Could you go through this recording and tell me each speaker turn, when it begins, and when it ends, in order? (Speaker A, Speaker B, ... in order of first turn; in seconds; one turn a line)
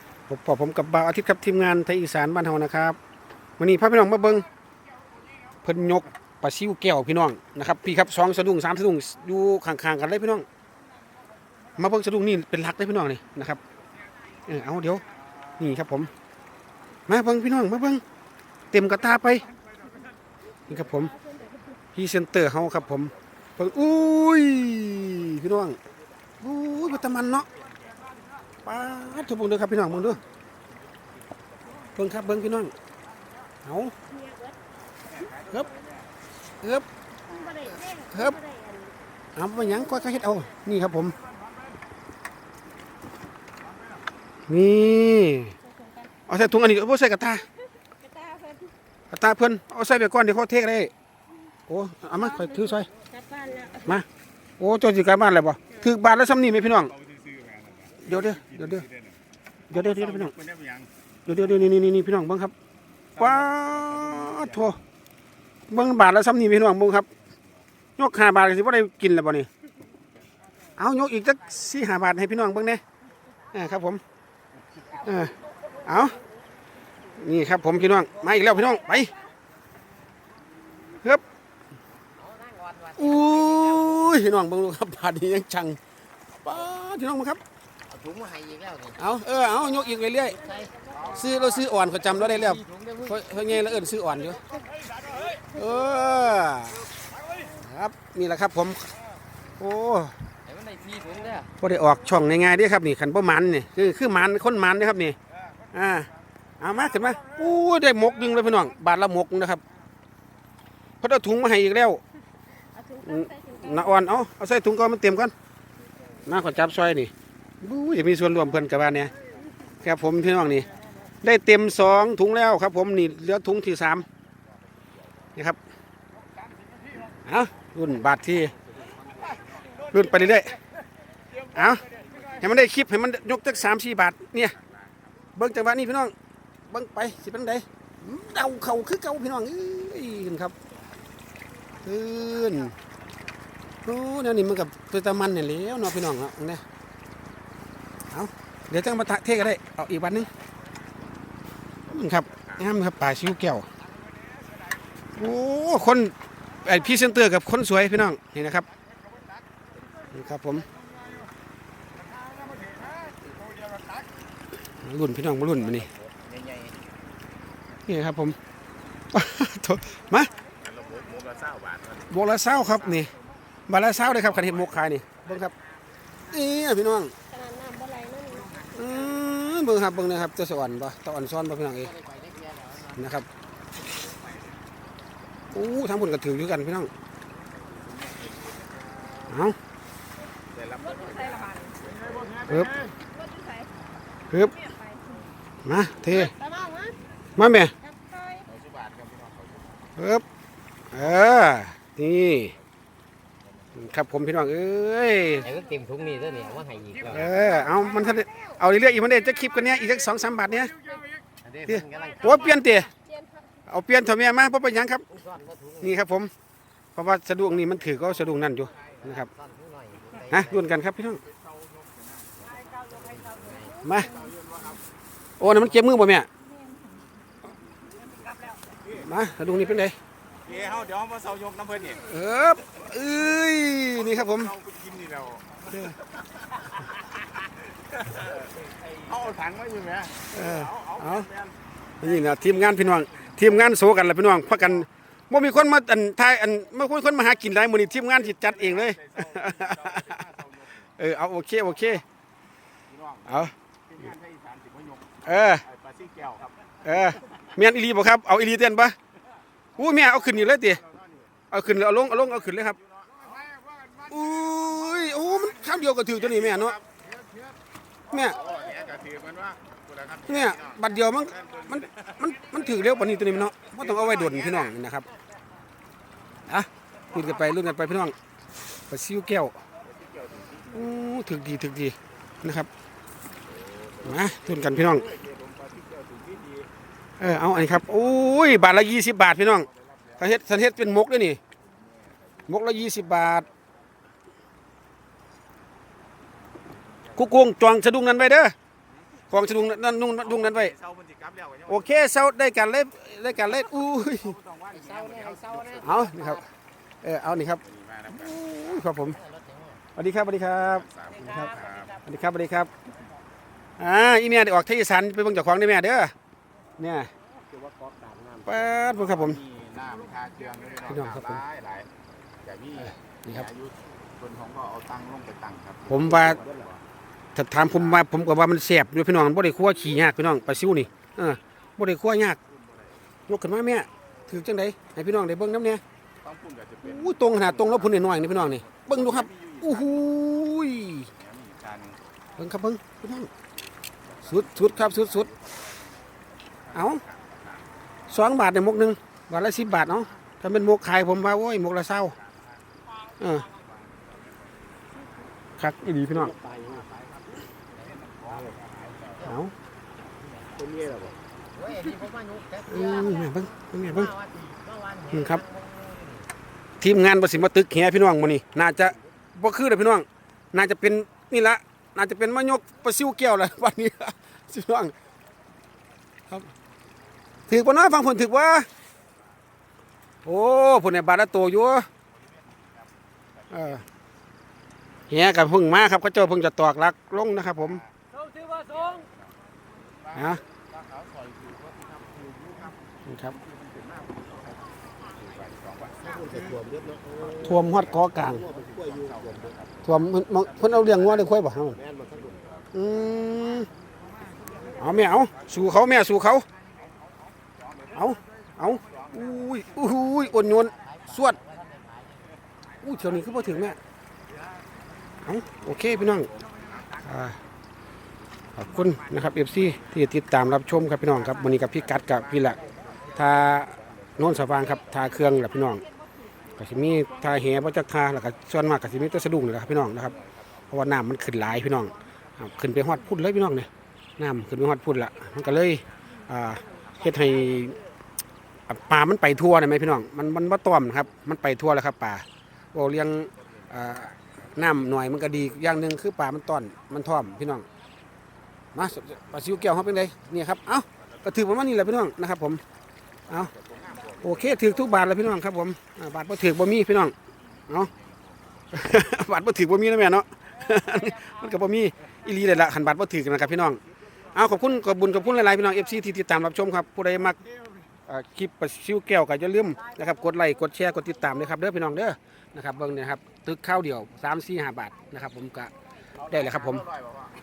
Speaker A: 0.3-3.0
Speaker A: 3.6-4.5
Speaker A: 5.6-10.5
Speaker A: 11.8-13.6
Speaker A: 14.5-15.0
Speaker A: 15.6-16.1
Speaker A: 17.1-18.0
Speaker A: 18.7-19.4
Speaker A: 20.7-21.2
Speaker B: 21.2-21.5
Speaker A: 21.9-25.8
Speaker A: 26.4-27.5
Speaker A: 28.6-30.2
Speaker A: 31.9-32.7
Speaker A: 33.6-33.9
Speaker B: 34.1-34.5
Speaker B: 37.3-38.9
Speaker A: 37.9-38.4
Speaker A: 39.4-41.2
Speaker A: 44.5-45.5
Speaker B: 45.7-46.1
Speaker A: 46.3-47.5
Speaker B: 48.0-48.7
Speaker A: 49.1-50.9
Speaker A: 51.7-52.9
Speaker B: 52.9-53.9
Speaker A: 54.6-56.9
Speaker C: 57.0-57.9
Speaker A: 58.0-58.9
Speaker C: 58.8-59.1
Speaker A: 59.7-60.3
Speaker C: 60.2-60.9
Speaker A: 61.3-62.5
Speaker A: 63.2-64.8
Speaker A: 65.7-67.1
Speaker A: 68.0-69.5
Speaker A: 70.8-72.8
Speaker A: 73.5-74.0
Speaker A: 75.0-75.3
Speaker A: 75.8-76.2
Speaker A: 77.2-79.1
Speaker A: 81.0-81.2
Speaker D: 82.2-83.9
Speaker A: 83.0-85.8
Speaker A: 86.4-87.4
Speaker D: 87.9-89.0
Speaker A: 89.0-90.5
Speaker D: 90.5-90.8
Speaker A: 91.0-94.4
Speaker D: 92.6-93.1
Speaker A: 95.5-96.8
Speaker A: 97.5-98.9
Speaker A: 99.6-100.1
Speaker D: 100.5-101.5
Speaker A: 101.6-105.2
Speaker A: 105.7-106.1
Speaker A: 106.6-109.6
Speaker A: 111.0-112.0
Speaker B: 112.7-113.6
Speaker A: 113.0-115.3
Speaker A: 116.2-119.1
Speaker A: 119.8-120.7
Speaker A: 121.2-124.0
Speaker A: 127.2-128.5
Speaker A: 129.9-130.6
Speaker A: 131.5-131.8
Speaker A: 132.4-134.6
Speaker A: 135.3-136.1
Speaker A: 136.7-140.5
Speaker A: 141.8-142.8
Speaker A: 143.8-146.6
Speaker A: 148.1-150.3
Speaker A: 151.9-153.7
Speaker A: 155.2-158.7
Speaker A: 160.1-160.7
Speaker A: 164.8-165.9
Speaker C: 166.2-166.7
Speaker A: 167.9-168.4
Speaker A: 169.1-170.3
Speaker C: 170.6-172.0
Speaker A: 172.1-173.1
Speaker A: 173.7-175.5
Speaker A: 176.3-177.1
Speaker B: 177.3-178.6
Speaker A: 178.7-182.0
Speaker D: 181.9-182.9
Speaker A: 182.9-183.3
Speaker A: 185.5-186.9
Speaker C: 187.8-189.1
Speaker A: 189.3-189.6
Speaker C: 190.6-192.5
Speaker B: 190.9-191.8
Speaker A: 192.4-192.7
Speaker B: 193.1-193.7
Speaker A: 194.3-194.6
Speaker B: 194.6-195.1
Speaker A: 195.7-196.4
Speaker A: 197.3-197.7
Speaker B: 197.8-198.5
Speaker C: 198.5-199.5
Speaker A: 200.0-200.2
Speaker A: 200.9-202.5
Speaker A: 203.8-205.5
Speaker D: 205.4-207.1
Speaker A: 207.0-210.7
Speaker D: 211.4-212.2
Speaker A: 211.6-212.9
Speaker A: 213.7-215.0
Speaker D: 215.1-215.8
Speaker A: 215.8-216.3
Speaker A: 216.9-219.3
Speaker D: 219.3-220.4
Speaker A: 220.3-221.2
Speaker D: 222.6-223.8
Speaker A: 223.8-224.2
Speaker C: 224.2-224.8
Speaker A: 225.4-226.3
Speaker A: 228.9-229.9
Speaker C: 230.4-231.9
Speaker A: 231.8-234.6
Speaker C: 234.3-235.6
Speaker C: 238.1-241.5
Speaker A: 240.3-241.3
Speaker A: 242.0-250.2
Speaker C: 248.9-250.5
Speaker A: 251.0-252.0
Speaker A: 253.2-253.5
Speaker C: 253.9-255.1
Speaker A: 255.2-255.6
Speaker C: 255.7-256.5
Speaker A: 256.8-258.9
Speaker A: 259.8-260.8
Speaker A: 261.5-262.8
Speaker C: 263.0-263.5
Speaker A: 264.1-266.8
Speaker A: 268.1-268.4
Speaker C: 268.4-270.3
Speaker A: 270.2-275.1
Speaker A: 276.5-278.1
Speaker A: 278.9-279.6
Speaker C: 280.0-280.5
Speaker A: 280.7-282.7
Speaker A: 284.0-285.1
Speaker C: 285.0-286.6
Speaker A: 287.2-289.7
Speaker A: 290.2-291.4
Speaker A: 292.5-293.5
Speaker A: 297.1-298.5
Speaker A: 299.3-300.7
Speaker C: 300.6-301.6
Speaker A: 301.7-304.4
Speaker C: 304.4-305.8
Speaker D: 304.8-305.8
Speaker A: 305.8-306.5
Speaker A: 307.0-309.2
Speaker C: 307.8-308.1
Speaker D: 309.2-309.8
Speaker A: 309.9-312.7
Speaker C: 310.9-311.9
Speaker D: 311.5-311.8
Speaker A: 313.8-316.1
Speaker A: 316.8-317.1
Speaker D: 317.5-318.5
Speaker A: 318.4-319.4
Speaker C: 319.2-321.9
Speaker A: 320.8-321.4
Speaker C: 322.5-325.9
Speaker A: 322.8-323.5
Speaker A: 325.9-326.4
Speaker C: 326.5-326.8
Speaker A: 327.3-332.4
Speaker A: 333.3-335.8
Speaker C: 336.2-337.1
Speaker A: 336.8-341.1
Speaker C: 338.8-339.6
Speaker C: 341.2-342.0
Speaker A: 342.4-343.3
Speaker A: 344.2-345.3
Speaker C: 345.2-345.8
Speaker A: 346.7-347.0
Speaker A: 348.1-352.1
Speaker A: 353.2-353.5
Speaker A: 355.6-356.3
Speaker D: 356.4-356.7
Speaker C: 356.6-357.0
Speaker C: 358.0-359.1
Speaker A: 359.2-359.5
Speaker D: 360.5-361.1
Speaker D: 361.6-363.3
Speaker A: 362.6-364.1
Speaker D: 364.0-366.2
Speaker A: 365.1-365.4
Speaker A: 366.8-374.9
Speaker A: 377.5-378.7
Speaker A: 380.2-381.9
Speaker A: 383.5-383.8
Speaker A: 385.1-387.8
Speaker C: 388.8-389.1
Speaker A: 390.1-390.4
Speaker C: 390.8-392.7
Speaker A: 393.1-393.4
Speaker C: 394.0-394.2
Speaker C: 395.4-396.6
Speaker D: 396.2-397.4
Speaker A: 397.3-398.4
Speaker C: 398.7-399.5
Speaker A: 399.8-401.8
Speaker A: 402.7-403.7
Speaker A: 404.8-406.4
Speaker A: 407.9-411.4
Speaker D: 410.7-412.2
Speaker A: 412.8-413.8
Speaker A: 415.2-416.3
Speaker A: 417.0-417.4
Speaker A: 418.6-422.6
Speaker A: 423.1-425.8
Speaker A: 426.6-437.8
Speaker A: 438.7-447.6
Speaker A: 448.8-452.6
Speaker C: 453.6-454.1
Speaker A: 454.2-457.1
Speaker A: 458.7-463.8
Speaker A: 464.3-467.4
Speaker A: 468.1-475.7
Speaker A: 476.3-476.9
Speaker C: 476.7-477.2